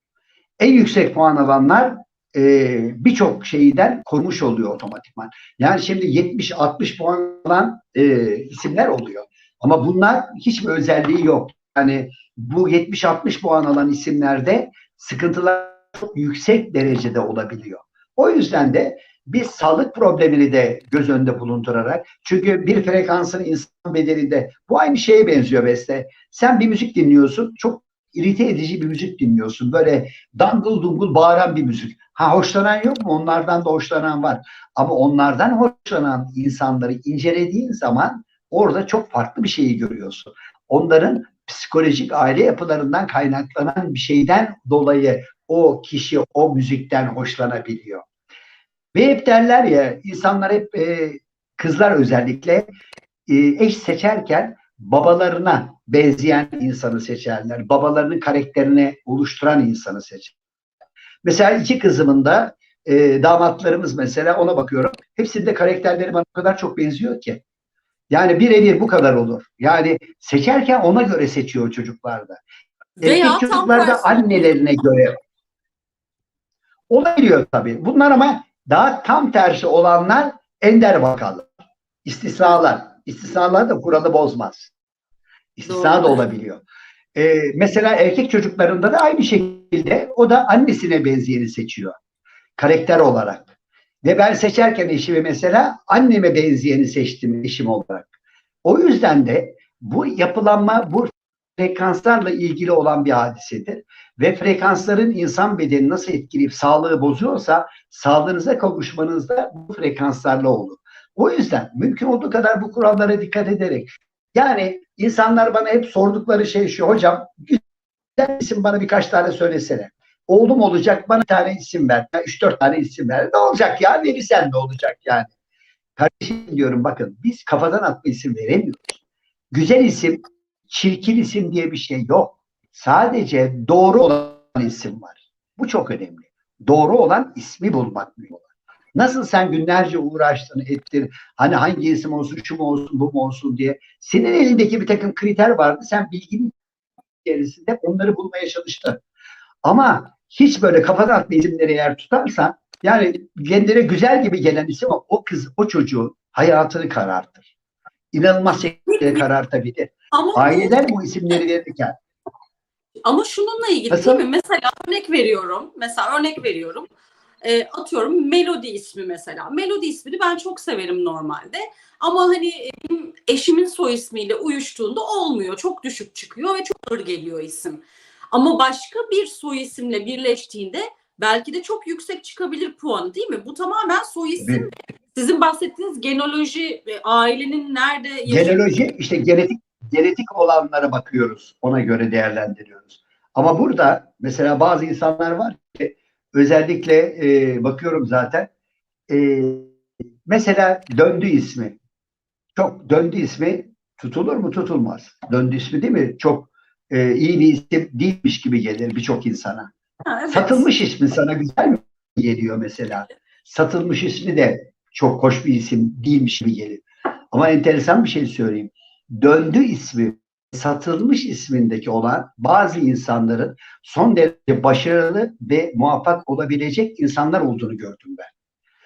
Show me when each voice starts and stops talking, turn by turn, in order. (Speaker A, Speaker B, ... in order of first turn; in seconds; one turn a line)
Speaker A: 0.6-48.0
Speaker A: 48.9-52.6
Speaker A: 53.3-60.3
Speaker A: 61.2-67.4
Speaker A: 68.1-72.4
Speaker A: 73.0-75.1
Speaker B: 73.0-74.6
Speaker A: 76.9-81.5
Speaker A: 82.0-84.7
Speaker A: 85.6-86.6
Speaker B: 85.6-86.2
Speaker A: 87.1-92.0
Speaker A: 92.6-93.5
Speaker A: 94.0-98.1
Speaker A: 98.6-117.6
Speaker A: 118.2-125.3
Speaker A: 126.0-129.0
Speaker A: 129.5-146.6
Speaker A: 147.2-149.0
Speaker A: 149.6-157.5
Speaker A: 158.1-161.9
Speaker B: 158.9-159.2
Speaker B: 160.1-160.9
Speaker B: 163.0-166.9
Speaker A: 163.9-164.2
Speaker B: 167.4-188.9
Speaker A: 184.4-184.7
Speaker A: 188.3-198.5
Speaker A: 199.1-199.7
Speaker A: 200.2-201.8
Speaker A: 202.5-209.7
Speaker B: 210.1-210.7
Speaker A: 210.3-228.3